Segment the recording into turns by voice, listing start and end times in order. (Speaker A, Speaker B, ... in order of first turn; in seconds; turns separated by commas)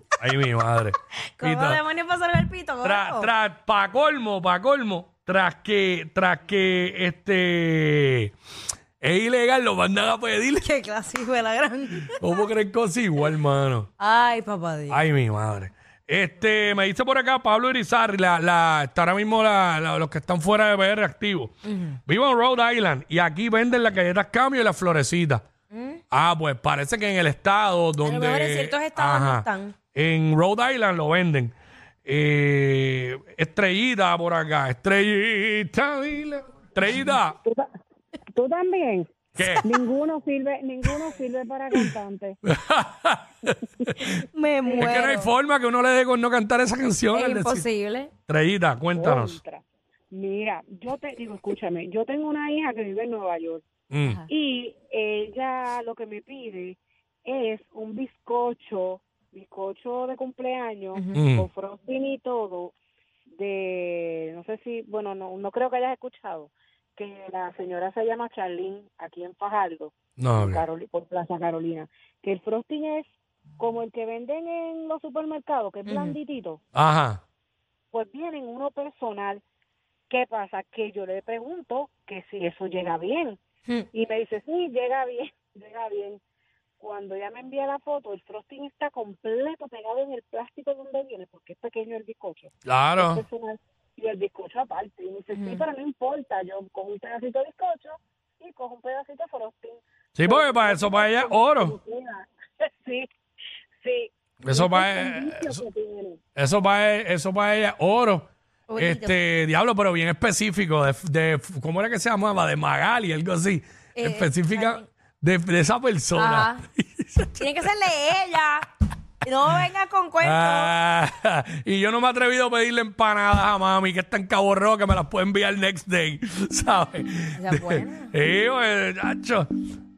Speaker A: 0.2-1.8, Speaker B: 1.4-3.3, Speaker A: 2.8-8.3, Speaker A: 9.0-10.7, Speaker B: 10.6-12.4, Speaker A: 12.2-13.9, Speaker B: 14.0-15.0, Speaker A: 14.9-21.5, Speaker B: 21.6-22.0, Speaker A: 22.1-25.4, Speaker B: 25.7-26.0, Speaker A: 26.1-31.5, Speaker B: 28.0-29.7, Speaker A: 32.0-37.4, Speaker C: 38.3-39.1, Speaker A: 39.4-39.7, Speaker C: 39.6-42.4, Speaker A: 42.4-44.2, Speaker B: 44.0-45.3, Speaker A: 44.8-47.7, Speaker B: 47.1-48.1, Speaker A: 48.3-49.4, Speaker C: 48.9-53.6, Speaker A: 53.9-54.2, Speaker C: 54.3-62.7, Speaker B: 60.9-61.2, Speaker A: 61.1-61.5, Speaker C: 63.3-76.6, Speaker A: 70.2-70.6, Speaker B: 75.8-76.1, Speaker A: 76.7-77.2, Speaker C: 77.9-79.4, Speaker C: 80.1-83.4, Speaker C: 83.9-86.2, Speaker C: 86.8-103.1, Speaker A: 92.7-93.2, Speaker B: 95.3-95.7, Speaker A: 100.1-101.8, Speaker C: 103.8-106.2, Speaker A: 104.4-105.6, Speaker A: 106.3-117.6, Speaker B: 108.7-109.1, Speaker B: 114.0-114.8, Speaker B: 116.1-116.6, Speaker B: 117.4-118.7, Speaker B: 119.2-120.7, Speaker A: 120.2-129.5, Speaker B: 127.4-128.1